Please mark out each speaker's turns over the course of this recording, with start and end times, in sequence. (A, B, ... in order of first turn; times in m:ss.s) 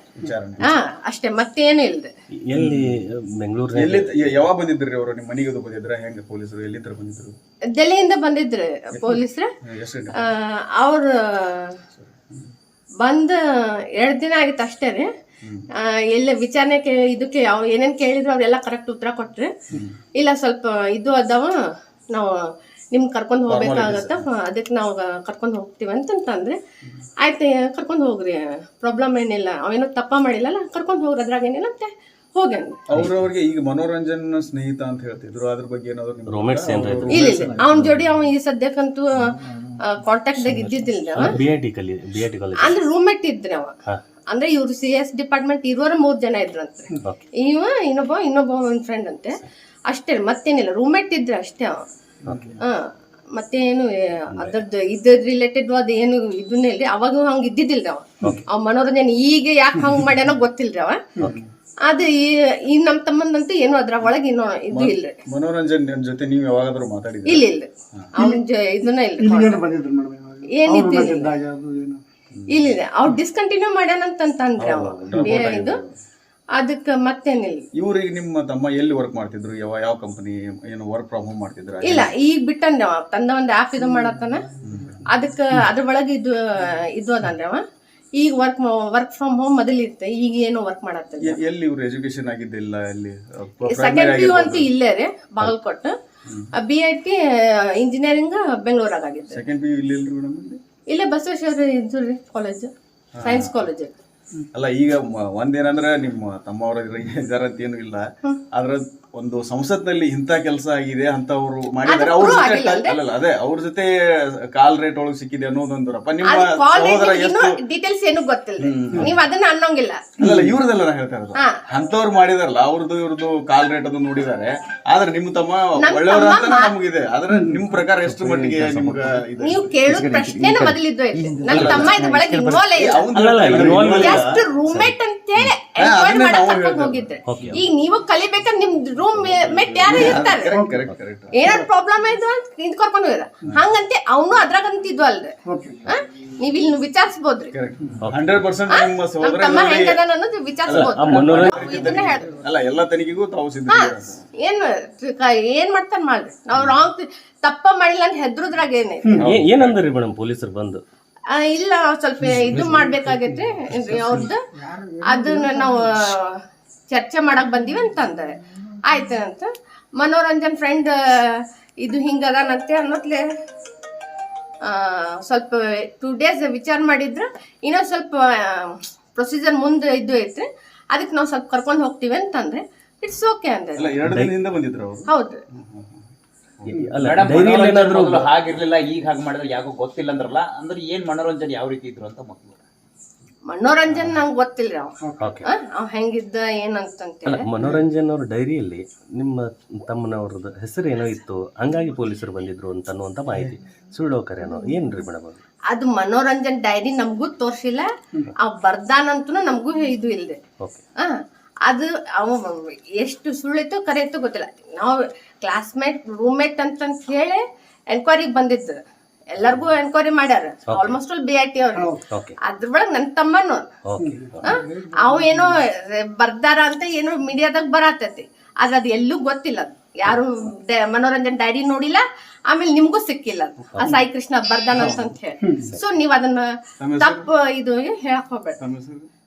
0:00.2-0:00.7 A
0:00.6-0:02.1 B
0:02.4-0:04.4 C
0:02.5-0:02.9 A
0:03.7-0:07.3 A
0:07.8-0:09.5 B
0:08.9-0:10.3 A
0:10.2-0:11.8 B
0:12.0-0:12.5 A
0:13.0-0:13.4 B
0:14.0-0:15.1 B
0:15.8-0:19.5 B
0:19.7-0:20.0 A
0:20.2-0:21.5 B
0:22.9-0:26.6 B
0:23.5-0:24.2 A
0:27.2-0:32.8 B
0:32.9-0:37.7 A
0:36.3-0:38.0 C
0:37.1-0:41.4 B
0:39.3-0:39.8 D
0:41.1-0:42.8 C
0:42.6-0:43.7 B
0:44.3-0:51.8 B
0:52.2-0:52.6 D
0:52.6-1:01.0 B
1:01.2-1:01.5 D
1:01.9-1:05.2 B
1:04.7-1:07.5 A
1:07.3-1:09.7 B
1:09.2-1:12.0 D
1:10.5-1:11.3 B
1:12.3-1:12.7 A
1:12.5-1:15.8 B
1:14.6-1:15.9 A
1:15.1-1:15.4 D
1:16.6-1:17.6 B
1:17.8-1:22.1 A
1:21.8-1:24.5 B
1:24.6-1:25.0 A
1:25.0-1:27.6 B
1:28.2-1:31.4 B
1:31.2-1:34.7 A
1:33.7-1:35.9 B
1:36.6-1:39.4 B
1:39.3-1:40.6 A
1:40.9-1:42.7 B
1:43.2-1:43.5 A
1:43.2-1:43.9 B
1:44.5-1:53.9 A
1:51.8-1:52.9 B
1:54.5-1:57.6 A
1:56.2-2:00.0 B
1:58.6-1:59.2 A
2:00.2-2:09.7 A
2:00.2-2:00.5 D
2:05.8-2:06.7 B
2:07.3-2:07.6 D
2:08.2-2:08.6 D
2:09.4-2:13.0 B
2:09.9-2:12.6 D
2:11.5-2:12.0 A
2:11.5-2:11.8 C
2:12.8-2:14.3 A
2:13.1-2:15.5 C
2:13.8-2:20.5 B
2:15.8-2:17.1 A
2:17.3-2:17.6 C
2:19.4-2:21.4 A
2:20.5-2:20.8 D
2:21.3-2:25.3 B
2:25.4-2:25.9 D
2:25.8-2:27.5 B
2:27.5-2:30.0 A
2:28.7-2:32.4 B
2:30.6-2:34.2 A
2:30.7-2:31.8 C
2:33.7-2:39.1 B
2:39.1-2:39.8 A
2:39.2-2:40.8 C
2:41.3-2:44.4 B
2:42.2-2:46.1 D
2:45.0-2:46.4 B
2:46.9-2:53.2 B
2:54.6-3:03.9 B
3:03.8-3:06.0 A
3:04.0-3:04.3 C
3:05.1-3:05.4 B
3:06.7-3:08.3 C
3:07.0-3:12.6 E
3:13.5-3:17.4 B
3:13.9-3:14.2 A
3:15.0-3:15.3 D
3:15.2-3:15.5 C
3:17.2-3:25.4 C
3:25.7-3:30.4 B
3:31.7-3:38.8 B
3:39.3-3:43.6 B
3:40.7-3:41.0 C
3:41.8-3:42.0 D
3:42.1-3:42.3 C
3:43.9-3:44.6 C
3:44.0-3:45.6 D
3:44.4-3:58.6 B
3:54.7-3:55.1 A
3:55.4-3:55.7 D
3:56.8-3:57.3 A
3:58.6-3:59.1 A